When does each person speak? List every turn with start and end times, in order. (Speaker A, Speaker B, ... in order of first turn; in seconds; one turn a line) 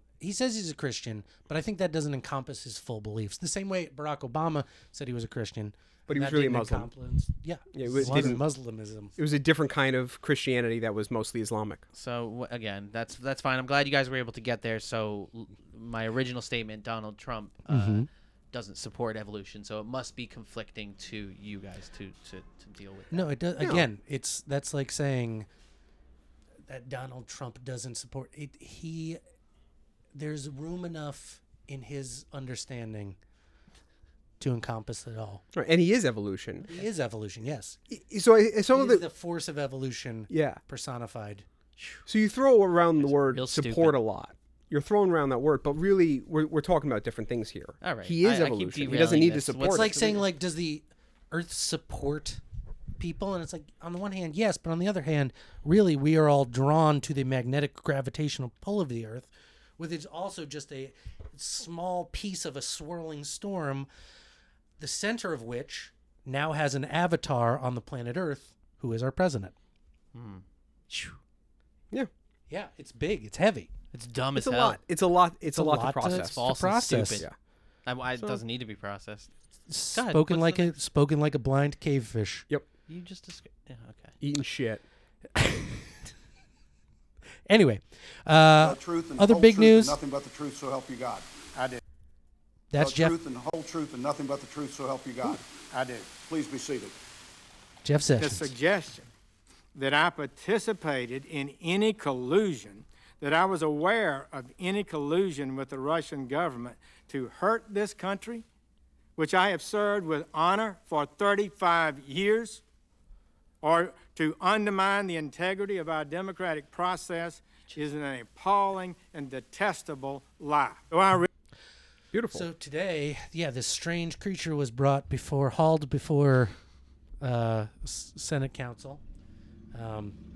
Speaker A: 0.2-9.1
Speaker B: 6.1-6.9
Speaker B: 7.7-8.4
Speaker B: 9.2-11.8
Speaker C: 11.9-23.3
Speaker A: 17.7-18.1
Speaker A: 23.1-25.5
Speaker B: 23.6-23.9
Speaker A: 26.6-29.2
Speaker A: 30.1-33.2
Speaker A: 34.4-35.4
Speaker B: 35.5-36.7
Speaker A: 36.7-37.8
Speaker B: 37.9-39.0
Speaker A: 38.7-41.5
Speaker B: 40.3-40.6
Speaker C: 41.8-42.0
Speaker B: 42.0-49.9
Speaker C: 43.0-43.9
Speaker C: 47.8-50.2
Speaker A: 49.6-52.4
Speaker A: 53.0-63.9
Speaker A: 64.8-69.5
Speaker C: 70.1-71.2
Speaker A: 72.5-73.7
Speaker C: 73.9-74.8
Speaker B: 74.3-76.4
Speaker A: 75.5-77.2
Speaker C: 76.0-77.3
Speaker C: 77.8-79.3
Speaker A: 79.7-82.5
Speaker C: 79.9-80.7
Speaker C: 82.9-84.2
Speaker B: 84.2-84.8
Speaker A: 85.3-85.9
Speaker A: 87.5-90.0
Speaker D: 88.6-91.8
Speaker A: 92.7-93.1
Speaker D: 92.8-97.0
Speaker A: 97.8-98.5
Speaker E: 98.2-99.1
Speaker E: 99.7-108.4
Speaker E: 109.2-112.6
Speaker E: 113.6-121.3
Speaker B: 122.1-122.5
Speaker A: 122.3-126.5
Speaker A: 127.2-129.0
Speaker A: 129.7-130.2